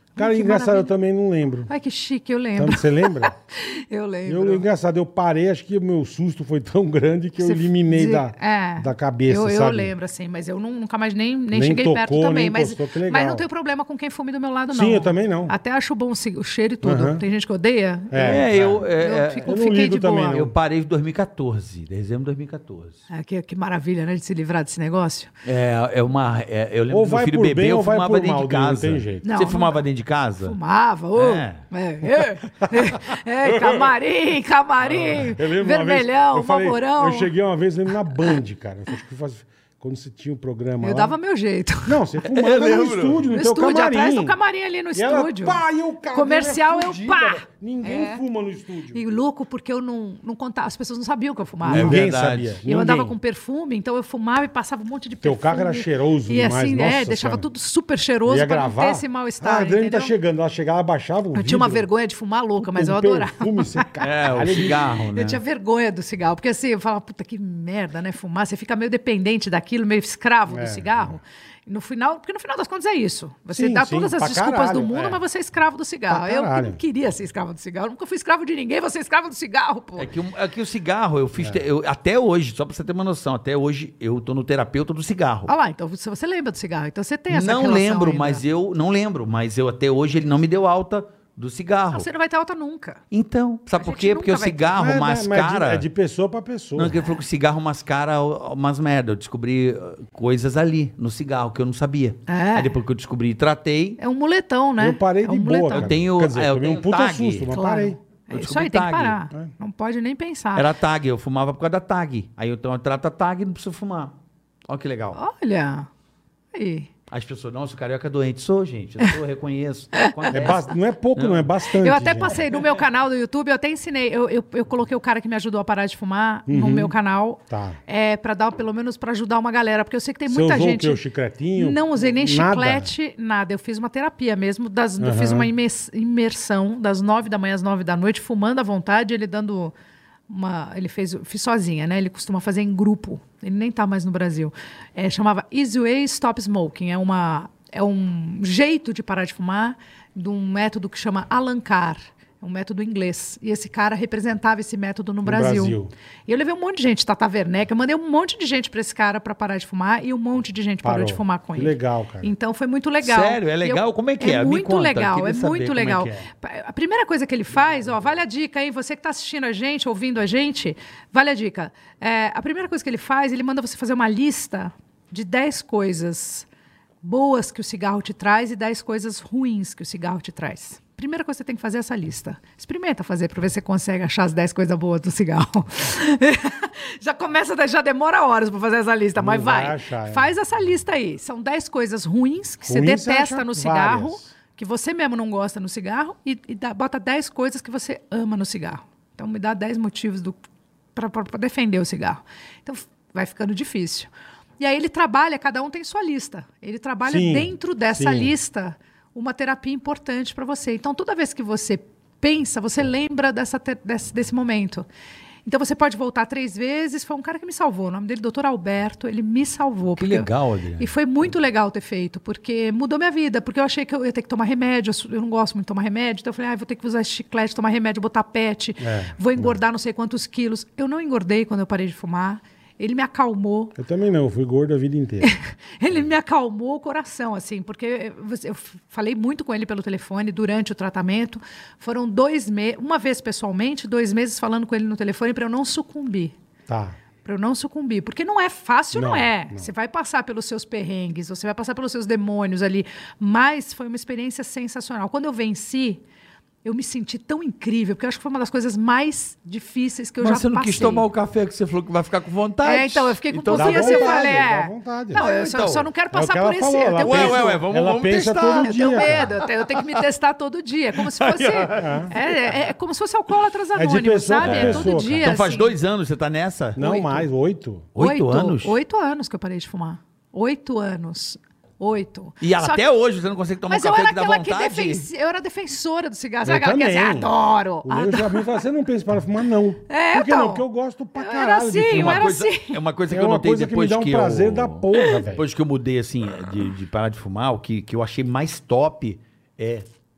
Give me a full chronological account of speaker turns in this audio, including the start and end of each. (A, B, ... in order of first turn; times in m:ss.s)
0:00.2-0:00.9 A
0:00.2-0:01.7 B
0:01.7-0:04.6 A
0:02.6-0:03.4 B
0:04.3-0:09.9 B
0:07.4-0:20.4 A
0:11.5-0:13.4 B
0:14.7-0:15.5 B
0:16.8-0:17.2 B
0:18.1-0:18.8 B
0:18.2-0:19.5 C
0:19.4-0:20.5 B
0:20.2-0:23.0 C
0:23.1-0:25.3 A
0:25.4-0:30.6 C
0:26.9-0:29.3 B
0:29.2-0:29.8 A
0:30.4-0:37.3 A
0:31.2-0:31.6 C
0:32.6-0:33.9 B
0:34.9-0:41.2 B
0:40.8-0:42.0 A
0:41.9-0:44.4 B
0:42.2-0:43.3 C
0:43.3-0:45.6 A
0:44.9-0:49.0 B
0:46.1-0:48.2 A
0:48.9-0:52.1 A
0:51.6-0:53.2 B
0:51.7-0:52.6 C
0:52.7-1:00.1 A
0:55.2-0:57.5 B
0:58.3-1:01.9 B
1:01.4-1:03.9 A
1:02.6-1:04.9 B
1:04.0-1:05.4 C
1:05.1-1:20.1 A
1:10.5-1:11.2 B
1:13.5-1:15.2 B
1:16.1-1:16.8 B
1:20.0-1:25.5 C
1:21.4-1:21.6 B
1:25.5-1:28.4 A
1:27.3-1:32.1 C
1:31.9-1:33.0 A
1:33.1-1:35.9 C
1:33.8-1:34.6 A
1:34.7-1:37.0 B
1:36.8-1:44.0 C
1:42.3-1:42.8 A
1:44.0-1:46.0 A
1:44.8-1:48.0 B
1:45.7-1:47.5 C
1:47.5-1:50.7 A
1:48.3-1:49.2 C
1:50.6-1:54.2 C
1:54.7-1:55.2 C
1:55.1-1:55.9 A
1:56.5-1:56.9 A
1:57.1-2:01.5 C
2:00.0-2:00.5 A
2:00.3-2:02.4 B
2:01.8-2:11.0 A
2:06.5-2:06.9 B
2:07.5-2:07.8 B
2:10.3-2:12.9 B
2:11.6-2:19.8 A
2:15.0-2:15.5 B
2:20.3-2:56.5 A
2:35.2-2:35.9 B
2:40.8-2:42.3 B
2:43.0-2:46.2 C
2:57.0-3:20.4 A
3:09.2-3:10.3 B
3:12.7-3:14.3 B
3:21.0-3:34.9 A
3:27.1-3:28.3 B
3:35.4-3:53.7 A
3:40.0-3:40.9 C
3:48.8-3:49.6 B
3:53.8-3:55.4 B
3:55.2-4:06.3 A
4:06.7-4:07.0 B
4:07.2-4:16.0 A
4:08.9-4:09.7 B
4:16.6-4:21.1 A
4:20.2-4:24.4 C
4:22.6-4:27.6 A
4:23.5-4:25.2 B
4:25.1-4:25.9 C
4:26.1-4:29.3 B
4:27.0-4:29.9 C
4:28.6-4:35.8 A
4:31.0-4:32.6 C
4:31.8-4:32.1 B
4:33.8-4:35.3 B
4:34.4-4:36.8 C
4:36.8-4:37.9 B
4:36.8-4:37.3 A
4:38.0-4:38.8 C
4:38.0-4:42.8 A
4:42.4-4:45.0 C
4:43.7-4:48.6 A
4:46.4-4:47.3 B
4:47.8-4:52.3 B
4:49.9-4:50.6 A
4:51.2-4:52.8 A
4:51.9-4:59.9 C
4:53.1-4:55.4 B